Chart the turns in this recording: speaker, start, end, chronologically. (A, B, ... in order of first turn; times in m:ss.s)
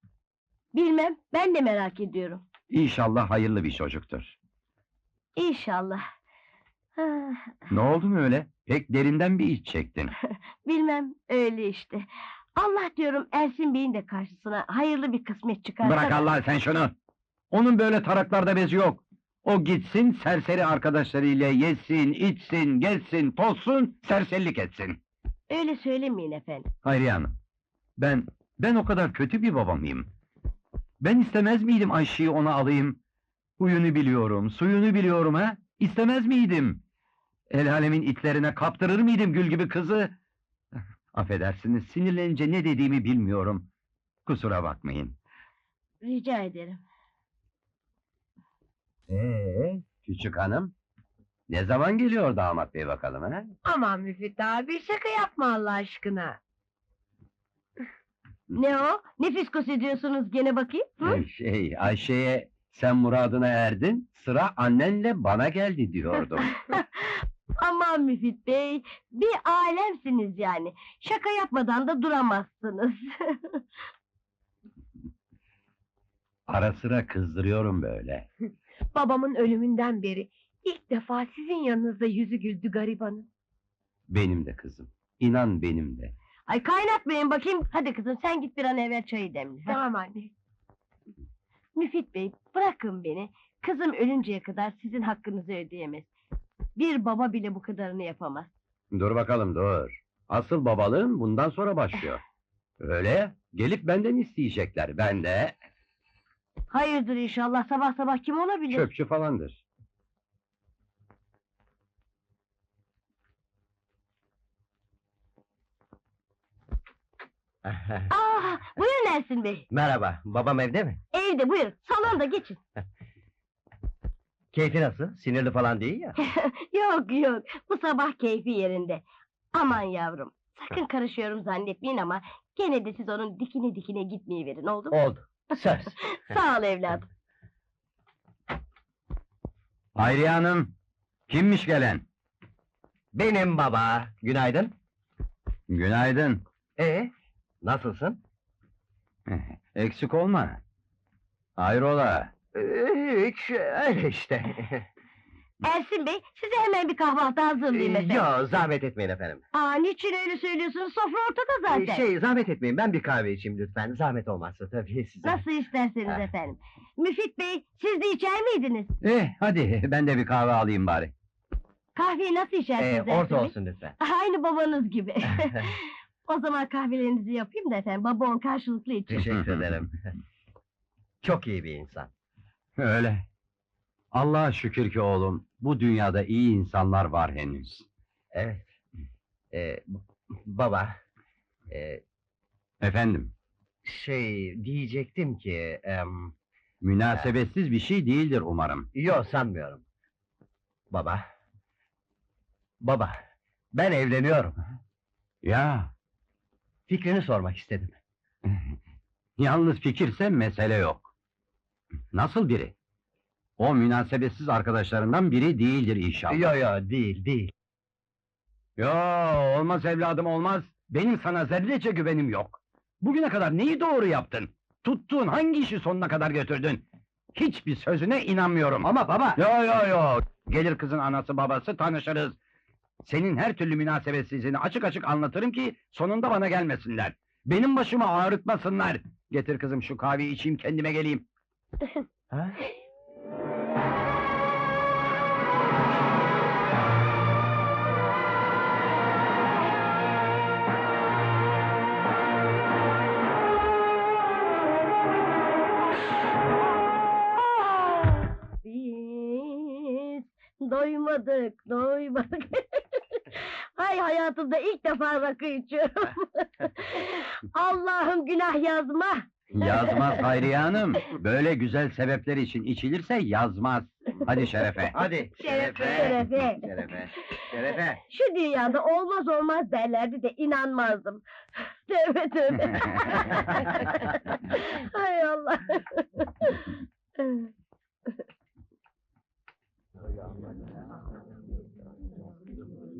0:00.7-0:02.4 A
0:02.7-0:04.4 B
0:05.4-0:06.0 A
0:07.0-0:07.6 A
0:07.7-0:10.1 B
0:10.6-0:16.3 A
0:15.8-0:16.9 B
0:17.5-0:25.0 B
0:25.5-0:26.7 A
0:26.8-0:27.3 B
0:28.0-0:30.1 B
0:31.0-0:33.0 B
0:33.6-0:36.8 B
0:37.5-0:40.1 B
0:41.1-0:43.7 B
0:44.2-0:45.2 B
0:46.0-0:46.8 A
0:49.1-0:50.7 B
0:51.5-0:53.5 B
0:53.6-0:56.4 C
0:58.5-1:01.2 A
1:01.0-1:06.6 B
1:06.6-1:07.0 A
1:07.6-1:13.6 A
1:16.5-1:18.3 B
1:18.9-1:23.3 C
1:24.1-1:26.1 B
1:26.5-1:29.8 A
1:29.7-1:30.3 C
1:31.8-1:36.1 A
1:36.8-1:38.5 A
1:38.9-1:42.2 B
1:42.8-1:45.5 B
1:46.7-1:48.9 A
1:48.7-1:49.6 B
1:57.6-1:58.1 D
1:58.1-1:59.6 A
1:59.7-2:01.0 D
2:01.1-2:02.6 A
2:04.5-2:06.2 D
2:06.2-2:15.0 A
2:14.9-2:15.9 D
2:16.0-2:17.0 A
2:20.0-2:20.7 B
2:21.3-2:22.0 B
2:23.1-2:24.7 D
2:25.7-2:26.4 B
2:26.8-2:27.1 D
2:27.6-2:28.2 D
2:29.3-2:30.6 B
2:31.6-2:32.3 B
2:32.5-2:34.8 D
2:35.6-2:38.3 A
2:37.7-2:39.4 D
2:39.5-2:42.0 A
2:41.7-2:45.4 D
2:45.2-2:48.9 A
2:49.0-2:51.1 B
2:51.9-2:59.3 A
2:52.8-2:54.0 D
2:59.1-3:00.0 D
2:59.2-2:59.6 B
3:01.2-3:02.1 D
3:02.8-3:03.2 B
3:04.1-3:07.8 B
3:08.3-3:08.7 D
3:09.5-3:10.9 D
3:11.7-3:12.0 D
3:12.8-3:13.3 B
3:13.8-3:16.3 D
3:16.8-3:18.9 B
3:18.9-3:19.8 D
3:20.9-3:21.2 D
3:22.8-3:23.2 D
3:23.7-3:24.6 D
3:25.4-3:25.9 B
3:26.9-3:28.0 D
3:28.5-3:28.7 B
3:29.4-3:31.1 B
3:32.1-3:32.7 B
3:33.6-3:36.5 B
3:36.3-3:37.5 D
3:38.8-3:46.8 B
3:47.3-3:52.4 B
3:48.8-3:49.4 D
3:53.0-4:01.2 B
4:02.3-4:02.6 D
4:18.6-4:30.1 A
4:29.5-4:35.0 B
4:34.9-4:38.0 D
4:35.4-4:36.6 A
4:35.5-4:36.1 C
4:38.1-4:41.2 A
4:41.8-4:46.7 A
4:47.2-4:47.5 A